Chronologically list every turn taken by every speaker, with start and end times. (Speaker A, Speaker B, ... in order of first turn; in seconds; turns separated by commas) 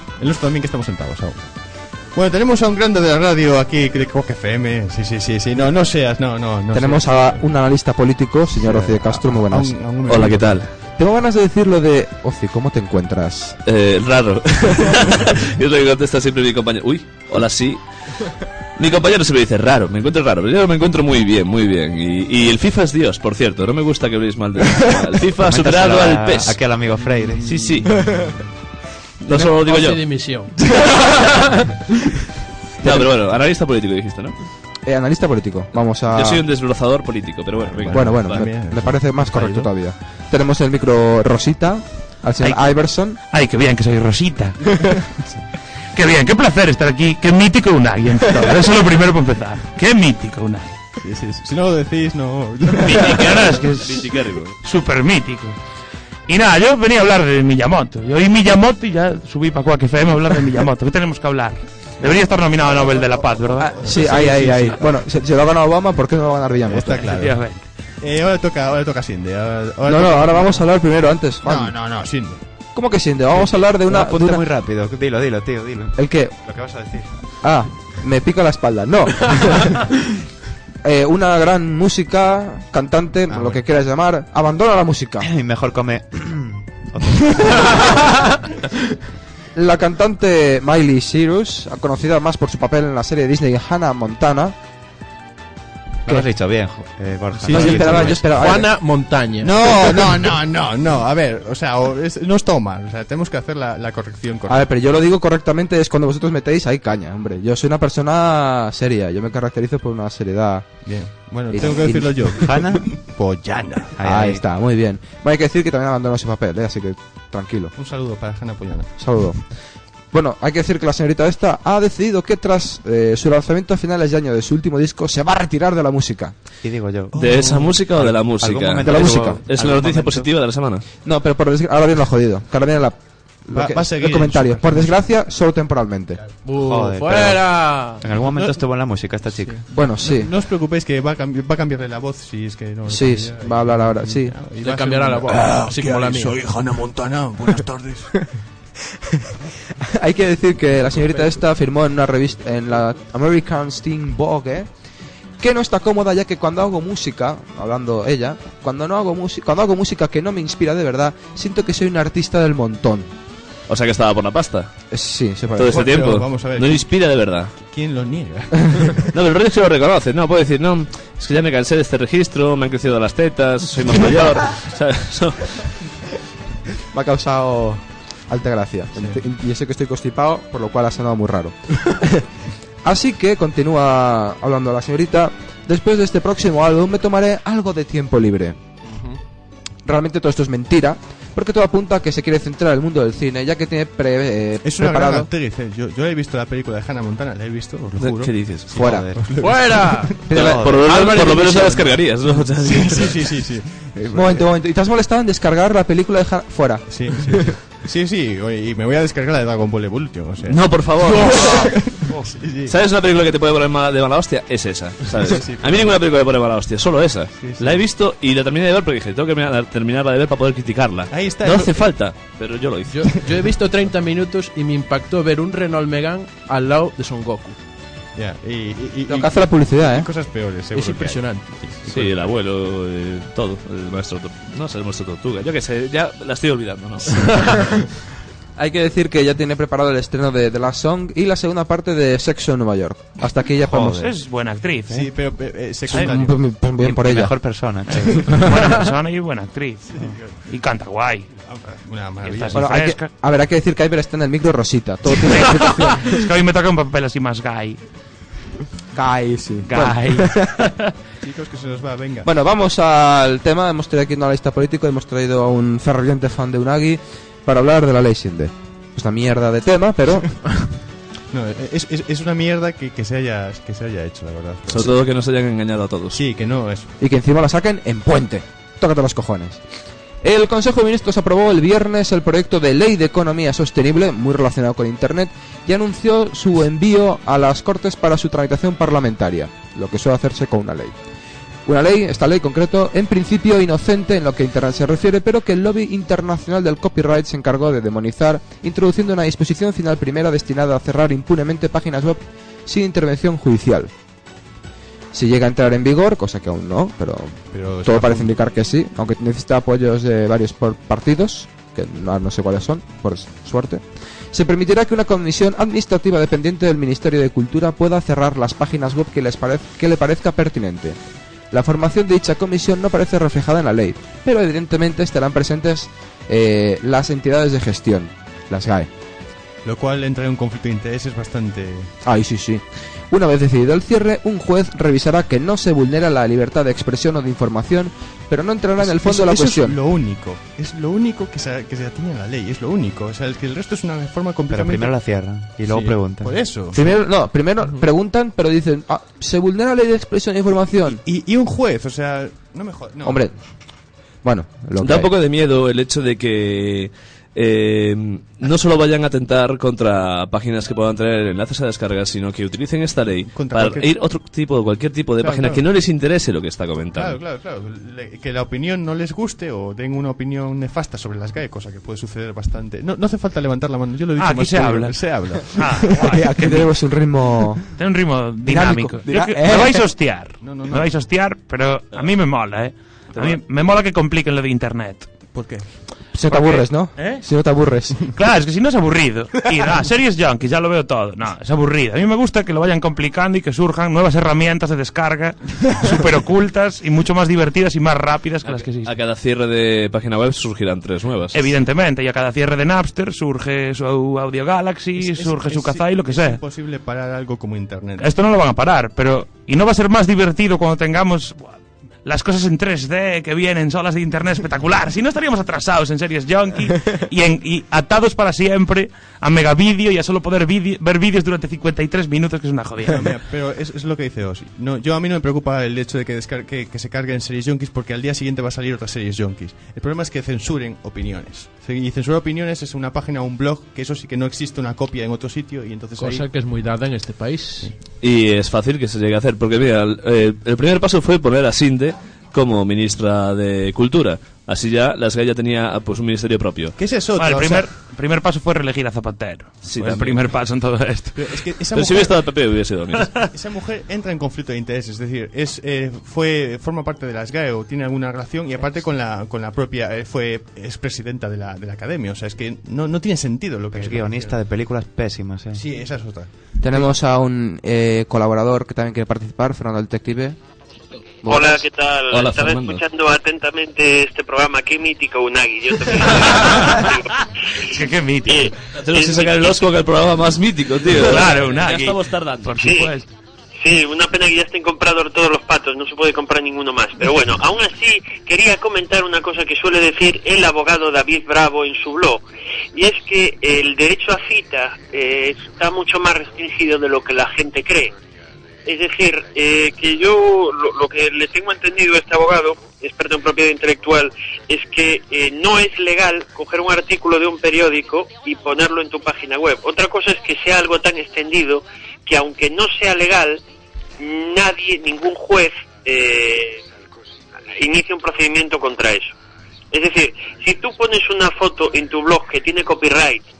Speaker A: 0.2-7.4, Speaker B: 6.7-10.2, Speaker A: 8.6-10.6, Speaker C: 10.1-10.7, Speaker B: 11.0-13.6, Speaker C: 13.7-26.6, Speaker D: 25.4-28.0, Speaker C: 27.4-27.9, Speaker A: 27.9-28.4, Speaker C: 29.2-30.2, Speaker E: 29.4-31.1, Speaker C: 32.8-34.3, Speaker B: 32.8-33.1, Speaker B: 34.8-36.4, Speaker C: 36.1-38.5, Speaker A: 37.5-39.7, Speaker B: 37.9-43.2, Speaker F: 42.4-44.6, Speaker F: 45.9-50.8, Speaker A: 51.0-53.2, Speaker F: 52.8-55.6, Speaker C: 53.0-54.6, Speaker F: 56.3-64.6, Speaker B: 63.6-67.1, Speaker A: 63.8-64.7, Speaker A: 66.7-70.7, Speaker F: 67.0-67.6, Speaker B: 69.8-71.8, Speaker A: 71.4-72.4, Speaker B: 72.7-74.4, Speaker D: 73.3-77.1, Speaker B: 76.0-76.3, Speaker B: 77.4-80.0, Speaker B: 80.8-85.3, Speaker D: 85.2-88.0, Speaker B: 89.5-94.5, Speaker D: 96.0-98.5, Speaker A: 97.4-98.3, Speaker B: 97.5-98.7, Speaker E: 98.3-99.9, Speaker A: 99.4-104.7, Speaker B: 104.5-110.9, Speaker A: 110.8-114.0, Speaker B: 111.5-112.4, Speaker D: 112.3-113.0, Speaker D: 114.0-114.4, Speaker B: 114.0-117.7, Speaker A: 117.8-119.2, Speaker B: 119.0-119.4, Speaker B: 120.1-126.3, Speaker D: 126.6-130.2, Speaker A: 127.1-127.8, Speaker C: 127.2-130.8, Speaker B: 128.8-129.8, Speaker B: 131.0-136.2, Speaker A: 133.5-135.0, Speaker E: 136.4-138.0, Speaker D: 136.5-139.6, Speaker A: 138.2-138.6, Speaker A: 139.4-148.3, Speaker B: 139.7-140.3, Speaker B: 142.9-144.4, Speaker E: 144.6-146.4, Speaker B: 149.2-154.7, Speaker B: 155.4-163.1, Speaker C: 163.7-164.7, Speaker B: 164.9-165.9, Speaker C: 165.6-167.5, Speaker A: 165.6-166.9, Speaker A: 167.6-169.1, Speaker C: 169.1-175.7, Speaker B: 176.9-182.2, Speaker B: 182.8-188.6, Speaker B: 189.8-195.3, Speaker A: 194.6-198.3, Speaker C: 198.0-198.7, Speaker B: 198.7-199.1, Speaker D: 198.7-199.8, Speaker A: 198.9-200.3, Speaker E: 199.4-200.2, Speaker B: 200.2-201.6, Speaker D: 200.3-201.2, Speaker C: 200.4-203.2, Speaker E: 200.9-201.8, Speaker A: 202.6-204.4, Speaker B: 204.1-207.3, Speaker A: 206.9-212.8, Speaker C: 210.4-211.7, Speaker C: 212.7-223.2, Speaker A: 215.2-216.0, Speaker A: 217.4-217.8, Speaker A: 221.1-221.9, Speaker E: 222.9-227.6, Speaker A: 228.1-232.2, Speaker B: 229.1-230.1, Speaker E: 230.7-231.8, Speaker C: 231.9-237.7, Speaker B: 238.6-244.1, Speaker F: 243.8-245.1, Speaker A: 244.9-246.4, Speaker B: 245.9-247.3, Speaker D: 246.8-248.6, Speaker F: 248.3-249.9, Speaker A: 249.9-250.4, Speaker F: 250.4-251.3, Speaker A: 251.4-252.7, Speaker F: 252.2-253.1, Speaker B: 252.5-256.1, Speaker F: 255.3-257.8, Speaker B: 258.9-260.6, Speaker F: 259.7-260.9, Speaker A: 261.2-262.3, Speaker B: 262.2-270.5, Speaker A: 271.3-274.9, Speaker C: 274.7-276.2, Speaker A: 276.1-276.9, Speaker B: 277.0-279.6, Speaker B: 280.2-290.9, Speaker B: 291.6-303.9, Speaker B: 305.1-321.0, Speaker A: 307.5-308.3, Speaker B: 321.5-328.9, Speaker A: 329.6-331.9, Speaker B: 332.0-339.8, Speaker A: 338.8-344.9, Speaker D: 344.5-346.4, Speaker A: 345.7-346.9, Speaker B: 346.7-351.0, Speaker A: 350.9-353.2, Speaker B: 353.0-353.3, Speaker B: 354.2-355.1, Speaker C: 354.8-367.2, Speaker A: 363.3-363.9, Speaker A: 365.2-365.6, Speaker A: 366.9-376.5, Speaker F: 374.2-376.6, Speaker B: 375.9-377.6, Speaker F: 377.8-385.1, Speaker B: 378.4-379.8, Speaker A: 380.4-381.0, Speaker A: 385.3-385.7, Speaker B: 386.1-388.1, Speaker F: 386.3-386.6, Speaker A: 386.9-387.2, Speaker F: 388.1-398.9, Speaker C: 398.4-401.5, Speaker F: 401.3-406.4, Speaker A: 405.0-408.1, Speaker F: 408.0-423.1, Speaker A: 422.9-436.3, Speaker E: 436.0-437.7, Speaker C: 438.0-446.8, Speaker A: 446.8-447.7, Speaker F: 447.2-451.3, Speaker C: 449.6-450.2, Speaker A: 451.1-452.2, Speaker C: 451.7-453.1, Speaker A: 453.2-464.3, Speaker D: 463.7-465.6, Speaker A: 465.5-466.9, Speaker B: 466.6-470.4, Speaker B: 471.2-471.6, Speaker G: 471.2-477.1, Speaker C: 472.1-472.8, Speaker F: 476.4-476.7, Speaker F: 477.6-478.6, Speaker G: 478.3-479.6, Speaker C: 478.7-482.9, Speaker F: 480.9-483.1, Speaker G: 483.6-492.2, Speaker G: 492.7-497.9, Speaker G: 498.6-513.4, Speaker G: 514.0-516.6, Speaker G: 517.5-519.1, Speaker G: 519.7-523.2